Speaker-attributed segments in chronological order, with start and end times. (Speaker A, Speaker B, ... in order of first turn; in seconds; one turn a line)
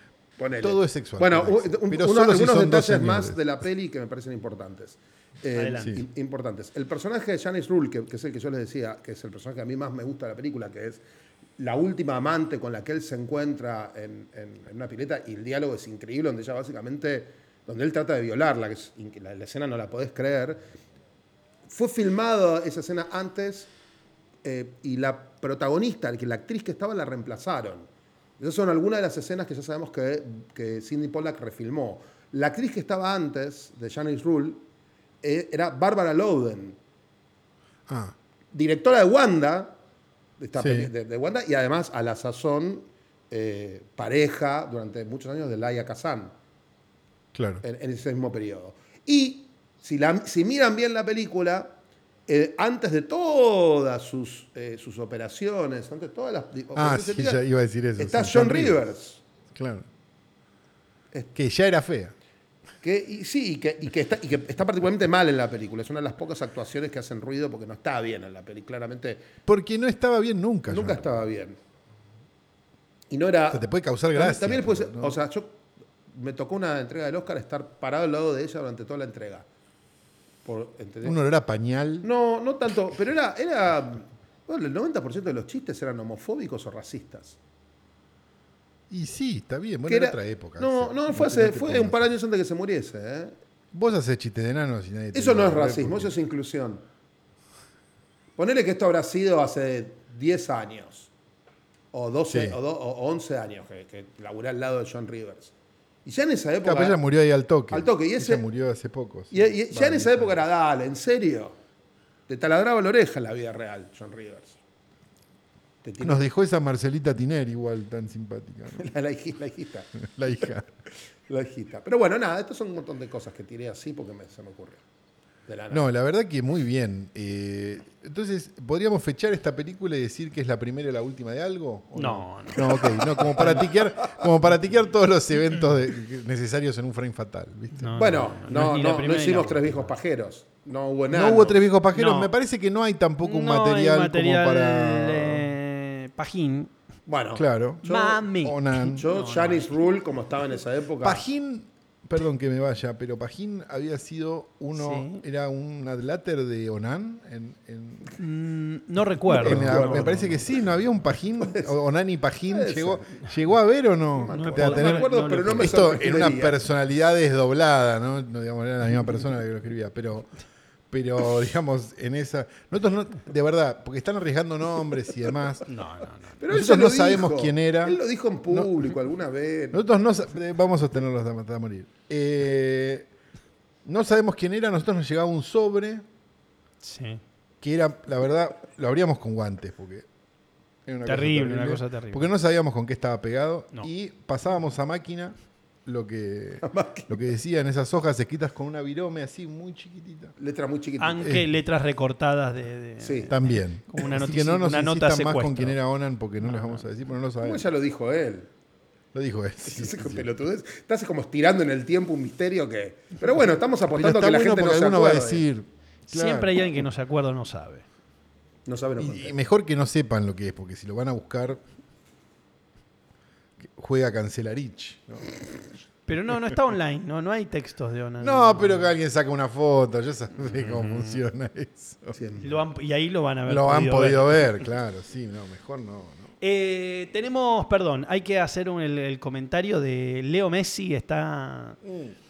Speaker A: 0.4-11.0
Speaker B: 0.6-3.4
Speaker C: 5.5-6.0
Speaker A: 11.6-20.7
Speaker A: 21.7-23.7
Speaker A: 24.4-27.9
Speaker A: 28.4-34.6
Speaker A: 35.2-36.8
Speaker B: 37.9-38.1
Speaker A: 38.5-39.8
Speaker A: 40.4-46.3
Speaker B: 40.6-40.9
Speaker B: 47.3-47.6
Speaker A: 47.6-57.4
Speaker B: 56.7-58.8
Speaker A: 58.0-59.2
Speaker B: 59.5-59.9
Speaker B: 61.4-62.1
Speaker A: 62.8-69.3
Speaker B: 69.5-71.1
Speaker A: 70.7-71.6
Speaker A: 73.1-79.5
Speaker B: 73.5-75.2
Speaker A: 80.4-81.2
Speaker B: 81.0-82.1
Speaker A: 82.0-87.4
Speaker B: 88.9-92.0
Speaker A: 89.9-93.4
Speaker B: 93.7-96.1
Speaker A: 95.1-96.8
Speaker A: 98.4-101.1
Speaker A: 101.9-105.5
Speaker B: 102.3-102.6
Speaker A: 106.0-107.0
Speaker B: 106.6-110.4
Speaker A: 107.7-108.4
Speaker A: 109.3-111.6
Speaker A: 112.3-114.6
Speaker A: 115.8-116.3
Speaker B: 116.0-118.9
Speaker A: 118.8-120.5
Speaker B: 120.0-120.7
Speaker A: 121.3-124.8
Speaker A: 125.5-125.9
Speaker B: 125.7-138.1
Speaker C: 131.9-133.5
Speaker A: 133.3-134.2
Speaker C: 137.7-139.9
Speaker A: 138.0-141.6
Speaker B: 141.1-145.5
Speaker C: 141.9-142.3
Speaker C: 143.2-146.7
Speaker A: 147.1-148.3
Speaker B: 147.4-149.0
Speaker C: 147.8-149.7
Speaker A: 148.9-151.2
Speaker B: 151.0-158.1
Speaker C: 154.7-155.2
Speaker C: 158.2-160.2
Speaker A: 159.3-160.4
Speaker B: 159.4-170.3
Speaker A: 161.4-161.7
Speaker A: 162.5-163.3
Speaker A: 164.2-166.6
Speaker C: 164.3-165.8
Speaker B: 170.9-175.7
Speaker C: 175.7-176.4
Speaker A: 176.4-179.8
Speaker B: 176.5-178.0
Speaker B: 179.7-183.1
Speaker B: 183.8-186.1
Speaker C: 186.8-187.2
Speaker B: 187.6-190.1
Speaker B: 190.9-200.3
Speaker C: 191.1-192.3
Speaker A: 196.6-197.2
Speaker A: 200.4-201.4
Speaker C: 201.0-205.8
Speaker A: 203.0-203.3
Speaker B: 203.3-207.6
Speaker C: 206.4-206.8
Speaker A: 207.4-208.5
Speaker B: 209.1-210.3
Speaker A: 209.6-215.4
Speaker B: 213.9-216.7
Speaker C: 216.1-217.8
Speaker A: 218.7-219.4
Speaker B: 219.0-221.6
Speaker B: 223.7-225.4
Speaker C: 226.1-228.9
Speaker B: 228.2-232.2
Speaker C: 230.4-231.2
Speaker A: 232.1-232.6
Speaker C: 232.4-234.6
Speaker B: 233.5-236.3
Speaker C: 236.4-241.8
Speaker B: 241.8-242.1